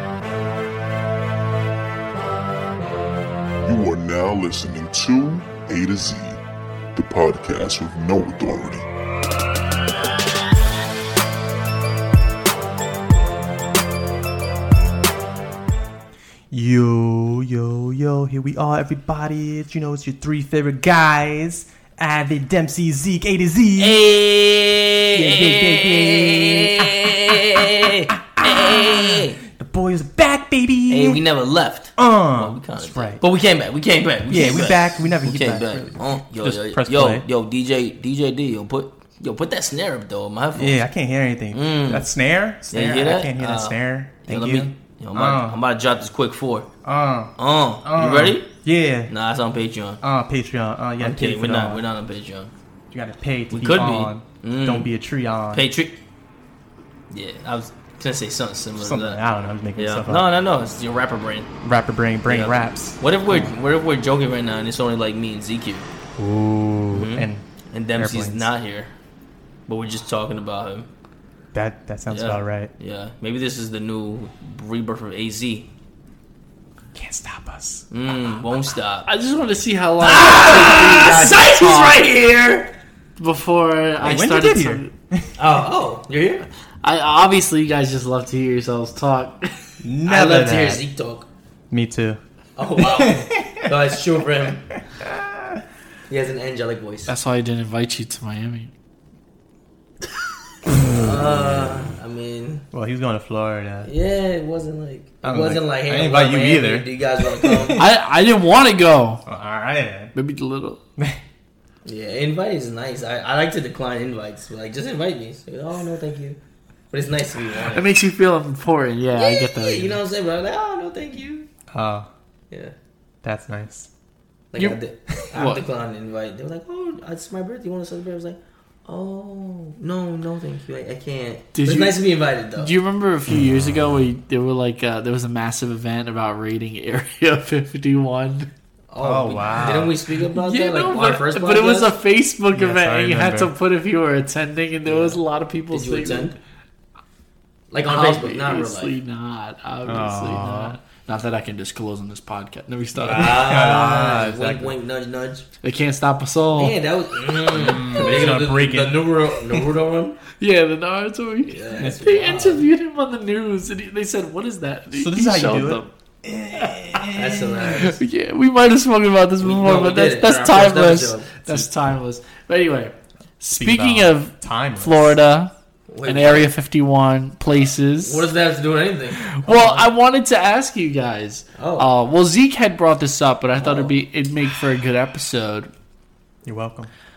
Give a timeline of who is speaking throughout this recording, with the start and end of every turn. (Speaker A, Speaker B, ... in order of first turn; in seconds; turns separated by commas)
Speaker A: 3.6-6.4, Speaker A: 6.9-8.8, Speaker B: 16.5-24.0, Speaker C: 23.8-29.4, Speaker B: 25.1-27.4, Speaker B: 28.2-31.2, Speaker C: 30.9-40.8, Speaker B: 32.0-33.2, Speaker B: 34.3-37.2, Speaker B: 40.5-45.6, Speaker C: 41.5-42.1, Speaker C: 42.7-46.7, Speaker B: 46.8-49.1, Speaker C: 47.4-48.5, Speaker C: 49.1-50.0, Speaker B: 50.0-51.8, Speaker C: 51.0-52.5, Speaker B: 52.9-55.7, Speaker C: 53.5-54.9, Speaker C: 55.5-56.0, Speaker C: 57.1-59.2, Speaker B: 58.8-60.3, Speaker C: 59.8-61.5, Speaker B: 61.6-63.0, Speaker C: 62.2-65.9, Speaker B: 66.2-68.5, Speaker C: 66.9-68.9, Speaker C: 69.7-70.9, Speaker B: 71.5-72.7, Speaker C: 72.1-75.7, Speaker B: 76.9-77.9, Speaker C: 77.9-79.1, Speaker D: 79.1-82.0, Speaker C: 80.0-82.7, Speaker D: 83.2-84.9, Speaker B: 84.0-85.3, Speaker C: 85.4-86.5, Speaker D: 86.8-89.7, Speaker B: 89.8-90.8, Speaker C: 90.0-91.3, Speaker B: 91.7-92.2, Speaker C: 92.5-94.7, Speaker B: 92.8-93.6, Speaker B: 95.0-95.4, Speaker C: 96.1-97.1, Speaker D: 97.1-98.7, Speaker C: 100.8-102.7, Speaker B: 102.7-103.9, Speaker C: 103.8-107.8, Speaker B: 105.2-107.9, Speaker D: 107.8-109.2, Speaker B: 109.2-110.1, Speaker D: 110.1-110.8, Speaker C: 111.8-116.4, Speaker C: 116.9-117.9, Speaker D: 117.7-120.0, Speaker C: 119.1-121.5, Speaker B: 121.7-122.1, Speaker B: 123.2-123.9, Speaker C: 124.5-132.7, Speaker D: 124.6-125.6, Speaker D: 131.5-132.0, Speaker D: 132.6-138.5, Speaker C: 138.9-141.9, Speaker B: 139.0-139.9, Speaker D: 140.3-146.3, Speaker B: 142.5-143.5, Speaker C: 144.8-146.3, Speaker C: 147.7-148.9, Speaker D: 147.8-153.6, Speaker B: 149.8-150.8, Speaker C: 152.9-155.5, Speaker B: 153.1-154.8, Speaker D: 155.6-156.8, Speaker C: 156.5-160.2, Speaker B: 157.5-159.1, Speaker D: 160.4-165.9, Speaker C: 161.4-162.7, Speaker B: 161.8-162.0, Speaker B: 164.9-167.7, Speaker C: 167.1-168.0, Speaker D: 167.6-175.5, Speaker C: 169.4-171.3, Speaker B: 173.5-175.1, Speaker C: 175.9-176.5, Speaker D: 176.0-178.3, Speaker C: 177.5-179.9, Speaker D: 179.1-185.7, Speaker C: 181.6-181.9, Speaker C: 183.6-183.9, Speaker B: 186.4-186.9